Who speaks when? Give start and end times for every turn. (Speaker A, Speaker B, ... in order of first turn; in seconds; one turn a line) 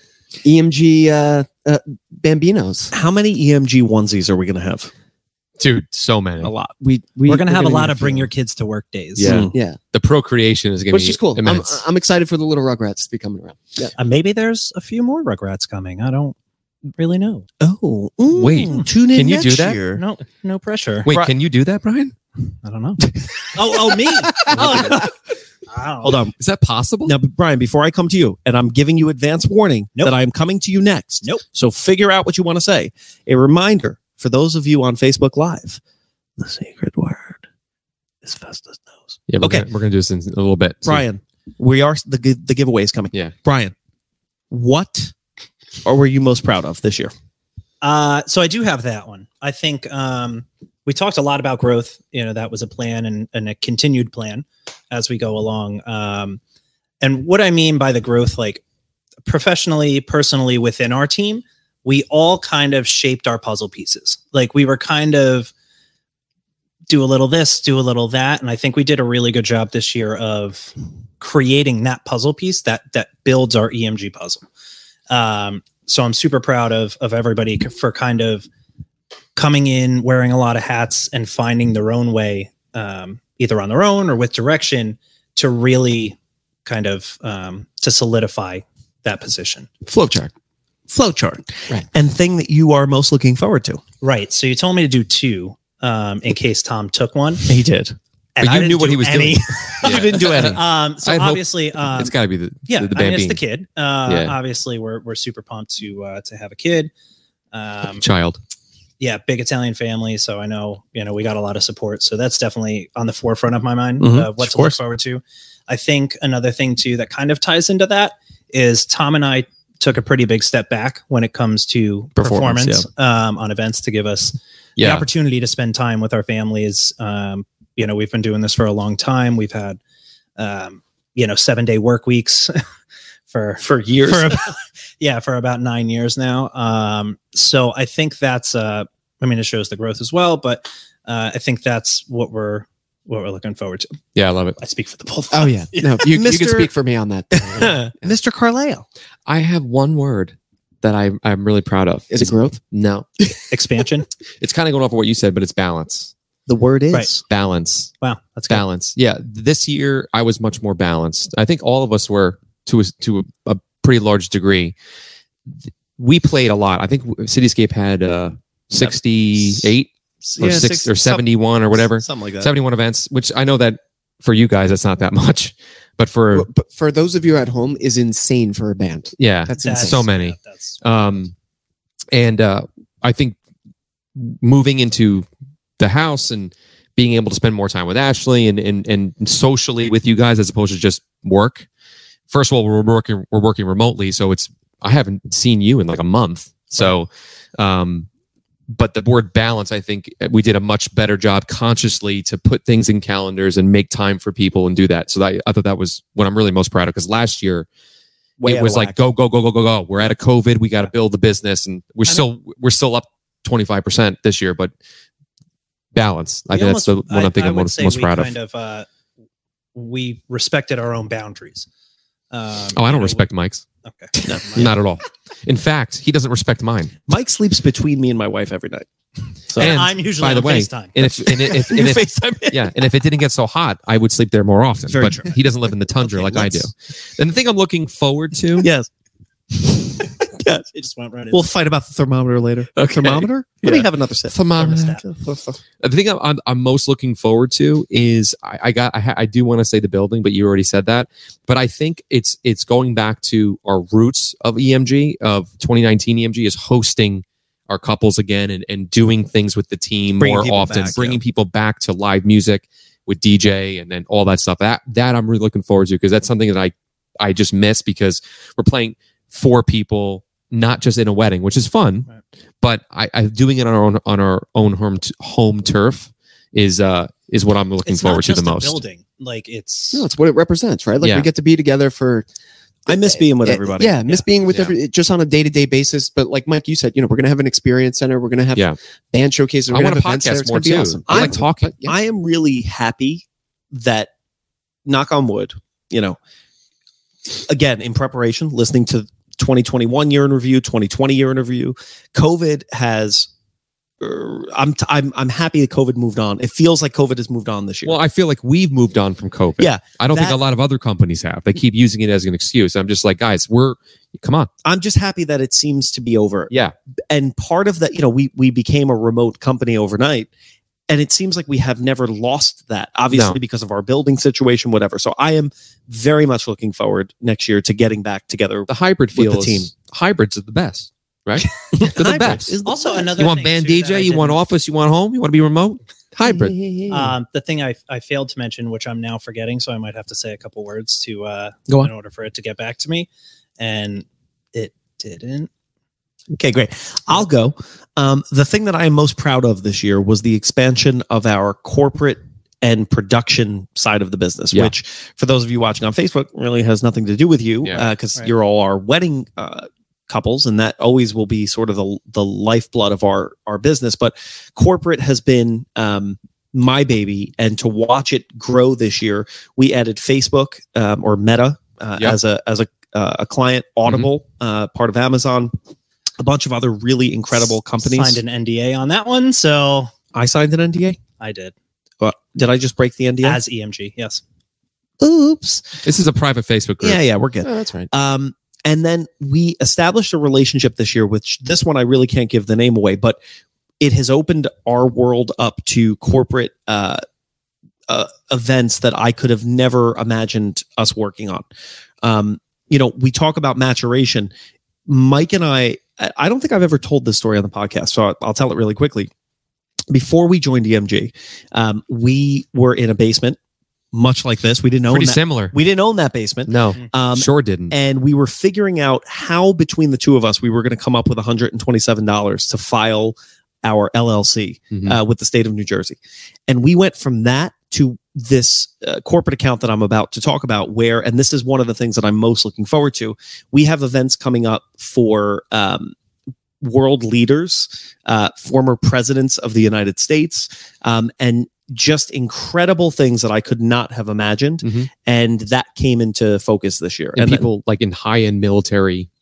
Speaker A: 0.4-2.9
Speaker B: 2.9-4.9
Speaker C: 5.6-6.5
Speaker B: 6.4-6.7
Speaker A: 6.8-8.3
Speaker D: 7.3-9.4
Speaker C: 9.2-11.8
Speaker B: 9.2-9.6
Speaker A: 9.5-9.8
Speaker A: 10.9-13.9
Speaker D: 14.0-16.4
Speaker D: 17.0-17.5
Speaker B: 17.6-20.0
Speaker C: 18.3-19.8
Speaker D: 20.0-21.1
Speaker C: 21.1-22.1
Speaker B: 21.1-21.3
Speaker D: 22.6-25.1
Speaker C: 23.8-25.1
Speaker B: 24.5-24.9
Speaker D: 25.7-26.2
Speaker B: 26.0-26.4
Speaker C: 26.4-27.1
Speaker B: 27.0-35.8
Speaker B: 36.4-37.4
Speaker B: 38.2-39.7
Speaker C: 39.3-41.0
Speaker B: 40.8-43.7
Speaker B: 44.5-45.1
Speaker B: 45.8-47.1
Speaker D: 47.8-56.4
Speaker D: 57.0-58.6
Speaker D: 59.2-65.5
Speaker D: 66.9-74.4
Speaker D: 75.1-78.5
Speaker D: 79.4-89.7
Speaker A: 89.8-90.3
Speaker B: 90.9-93.8
Speaker D: 94.0-97.5
Speaker B: 97.5-98.0
Speaker D: 98.4-102.2
Speaker C: 98.4-103.4
Speaker B: 99.8-100.6
Speaker D: 102.7-106.9
Speaker C: 104.1-104.4
Speaker D: 107.5-108.0
Speaker C: 108.0-108.4
Speaker D: 109.0-129.8
Speaker B: 114.0-114.8
Speaker B: 122.2-122.9
Speaker C: 124.8-125.0
Speaker D: 130.4-132.6
Speaker D: 133.3-144.0
Speaker B: 133.6-134.4
Speaker C: 144.2-144.6
Speaker D: 144.6-146.0
Speaker A: 145.3-148.1
Speaker B: 146.1-146.7
Speaker B: 147.3-148.9
Speaker C: 149.3-153.1
Speaker A: 152.1-152.6
Speaker D: 153.5-154.1
Speaker C: 154.4-156.1
Speaker B: 156.5-157.2
Speaker C: 157.3-157.9
Speaker D: 158.0-158.7
Speaker C: 158.5-164.8
Speaker C: 166.0-176.5
Speaker B: 168.8-169.7
Speaker B: 170.2-172.5
Speaker A: 176.3-180.0
Speaker C: 179.2-181.3
Speaker D: 179.6-180.8
Speaker C: 182.1-183.4
Speaker C: 184.2-185.3
Speaker C: 185.8-191.7
Speaker C: 192.3-198.1
Speaker C: 198.7-207.7
Speaker B: 208.4-209.0
Speaker C: 208.4-214.7
Speaker C: 215.9-218.3
Speaker D: 216.5-218.9
Speaker D: 219.8-221.7
Speaker D: 222.3-223.3
Speaker C: 222.8-223.6
Speaker D: 223.8-224.8
Speaker C: 224.2-227.0
Speaker B: 224.2-224.7
Speaker B: 227.1-228.9
Speaker B: 229.4-229.8
Speaker D: 229.6-231.1
Speaker C: 229.6-238.7
Speaker B: 231.1-232.7
Speaker B: 234.9-235.4
Speaker B: 236.0-236.7
Speaker B: 238.6-238.9
Speaker B: 239.5-240.6
Speaker D: 240.7-241.5
Speaker B: 241.3-245.4
Speaker C: 242.8-245.0
Speaker D: 244.6-245.0
Speaker C: 245.8-272.1
Speaker B: 260.2-261.2
Speaker C: 272.6-278.8
Speaker D: 277.9-280.1
Speaker A: 279.9-282.3
Speaker C: 281.0-281.3
Speaker B: 282.9-284.2
Speaker A: 282.9-291.9
Speaker C: 284.5-284.8
Speaker C: 289.7-291.8
Speaker B: 291.1-294.1
Speaker B: 294.9-296.2
Speaker B: 297.5-303.3
Speaker B: 304.0-308.0
Speaker C: 307.9-314.5
Speaker B: 309.6-310.4
Speaker B: 314.6-316.5
Speaker B: 317.1-320.3
Speaker B: 320.9-329.7
Speaker C: 323.1-323.4
Speaker C: 328.7-332.6
Speaker B: 331.4-333.3
Speaker D: 332.6-334.4
Speaker C: 333.2-336.6
Speaker B: 336.6-337.1
Speaker D: 336.9-343.1
Speaker D: 343.6-345.5
Speaker B: 346.3-375.5
Speaker B: 376.2-378.2
Speaker D: 377.8-379.9
Speaker B: 380.1-381.0
Speaker D: 381.2-381.5
Speaker B: 382.0-383.4
Speaker D: 383.2-384.2
Speaker B: 385.0-385.8
Speaker C: 385.8-387.9
Speaker B: 386.8-393.2
Speaker B: 393.8-397.0
Speaker B: 397.9-401.5
Speaker B: 402.0-404.3
Speaker B: 404.9-409.1
Speaker B: 409.9-413.4
Speaker B: 413.9-435.9
Speaker C: 414.9-415.6
Speaker C: 416.5-417.7
Speaker C: 424.7-425.0
Speaker B: 436.6-447.5
Speaker C: 444.6-444.9
Speaker C: 447.2-449.1